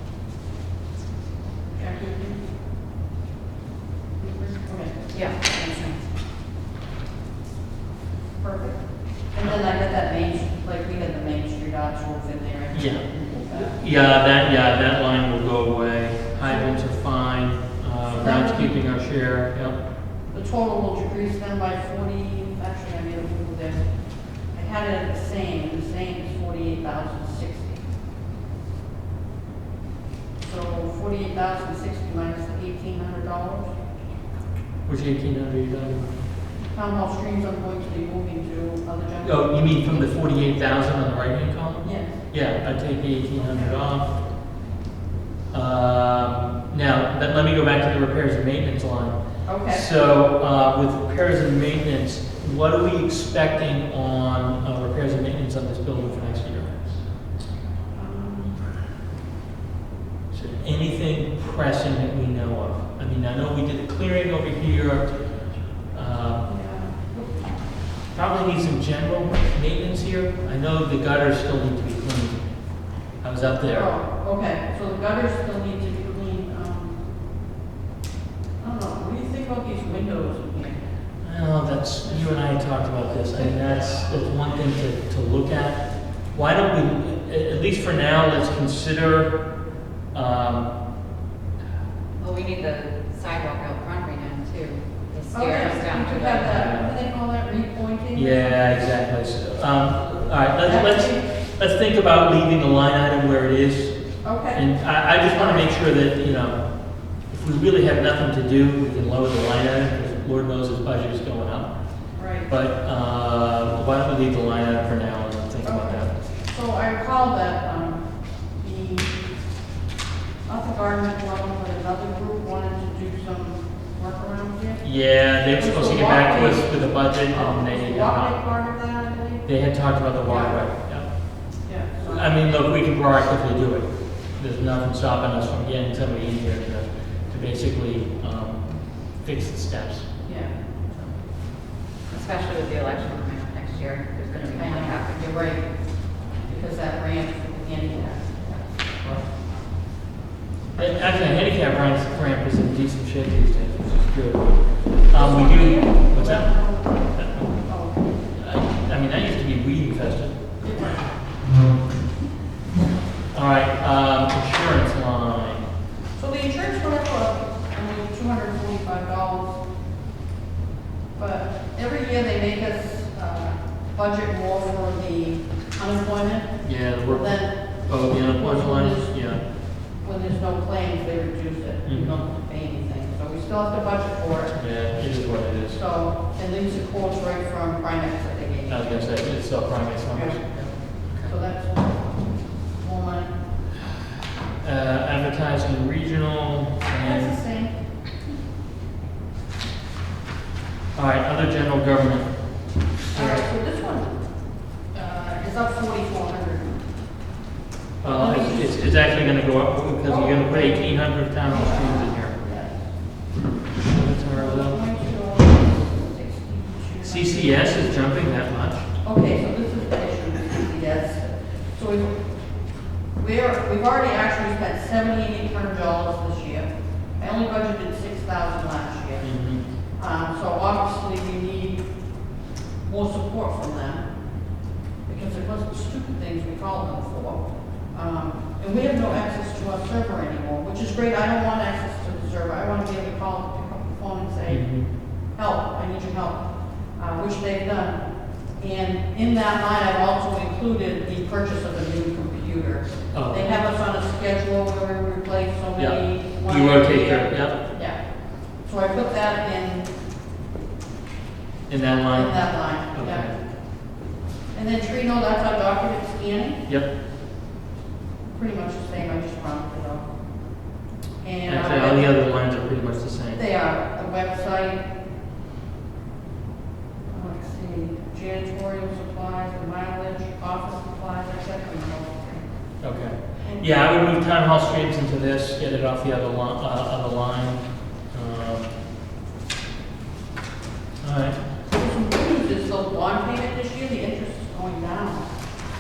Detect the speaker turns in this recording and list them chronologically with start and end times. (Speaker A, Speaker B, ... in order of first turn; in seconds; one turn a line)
Speaker A: 1.7-2.5
Speaker A: 4.2-5.2
Speaker B: 5.1-6.0
Speaker A: 8.4-8.8
Speaker A: 9.3-13.8
Speaker C: 12.7-19.8
Speaker A: 16.4-16.8
Speaker A: 18.1-18.8
Speaker A: 20.3-23.9
Speaker A: 24.5-27.8
Speaker A: 30.4-33.7
Speaker C: 34.9-36.1
Speaker A: 36.7-40.0
Speaker C: 39.2-44.2
Speaker A: 41.8-42.2
Speaker C: 45.5-57.0
Speaker A: 49.5-49.9
Speaker A: 57.9-58.6
Speaker C: 60.3-65.2
Speaker C: 65.8-66.5
Speaker A: 66.4-67.4
Speaker C: 68.1-72.5
Speaker C: 73.2-73.9
Speaker A: 73.7-77.0
Speaker A: 78.6-80.8
Speaker C: 81.2-89.4
Speaker A: 82.0-82.4
Speaker C: 90.1-90.7
Speaker B: 92.2-96.6
Speaker A: 95.3-98.9
Speaker C: 96.4-96.9
Speaker C: 98.1-104.0
Speaker A: 100.6-101.3
Speaker A: 104.2-105.8
Speaker C: 104.5-106.6
Speaker C: 107.3-111.7
Speaker A: 112.2-112.5
Speaker C: 112.5-116.2
Speaker A: 115.6-118.0
Speaker A: 118.6-119.2
Speaker A: 120.5-124.9
Speaker C: 124.8-128.4
Speaker A: 125.5-129.5
Speaker C: 129.4-131.3
Speaker A: 130.2-130.6
Speaker A: 131.6-132.3
Speaker C: 132.1-140.2
Speaker A: 140.2-141.0
Speaker B: 142.1-145.3
Speaker A: 144.6-145.7
Speaker A: 146.2-149.2
Speaker C: 150.8-157.6
Speaker A: 155.1-158.1
Speaker C: 158.3-160.4
Speaker A: 160.6-161.1
Speaker C: 163.3-165.7
Speaker A: 166.2-169.6
Speaker A: 171.2-179.3
Speaker C: 176.6-179.4
Speaker A: 180.0-184.6
Speaker C: 181.9-182.2
Speaker C: 184.6-185.8
Speaker A: 185.7-189.1
Speaker C: 188.7-190.5
Speaker A: 190.1-192.2
Speaker C: 191.1-191.3
Speaker A: 192.8-193.4
Speaker C: 194.6-197.4
Speaker A: 196.9-197.8
Speaker C: 200.9-202.3
Speaker C: 203.0-203.5
Speaker A: 203.1-204.2
Speaker A: 204.9-206.8
Speaker C: 208.0-212.4
Speaker A: 208.1-208.8
Speaker A: 210.0-212.8
Speaker C: 213.8-214.9
Speaker A: 214.3-217.7
Speaker C: 217.0-218.9
Speaker A: 219.0-222.3
Speaker A: 223.2-231.9
Speaker C: 229.2-229.7
Speaker A: 232.8-234.1
Speaker A: 235.1-248.0
Speaker C: 244.5-244.9
Speaker A: 248.6-258.0
Speaker C: 253.1-253.5
Speaker C: 255.8-257.6
Speaker A: 258.6-259.9
Speaker C: 261.7-263.4
Speaker A: 262.1-263.4
Speaker A: 264.5-266.6
Speaker A: 268.3-270.1
Speaker A: 271.2-272.1
Speaker C: 271.4-273.4
Speaker A: 273.4-274.9
Speaker A: 277.1-282.4
Speaker C: 282.8-288.7
Speaker C: 291.0-291.4
Speaker A: 291.7-295.3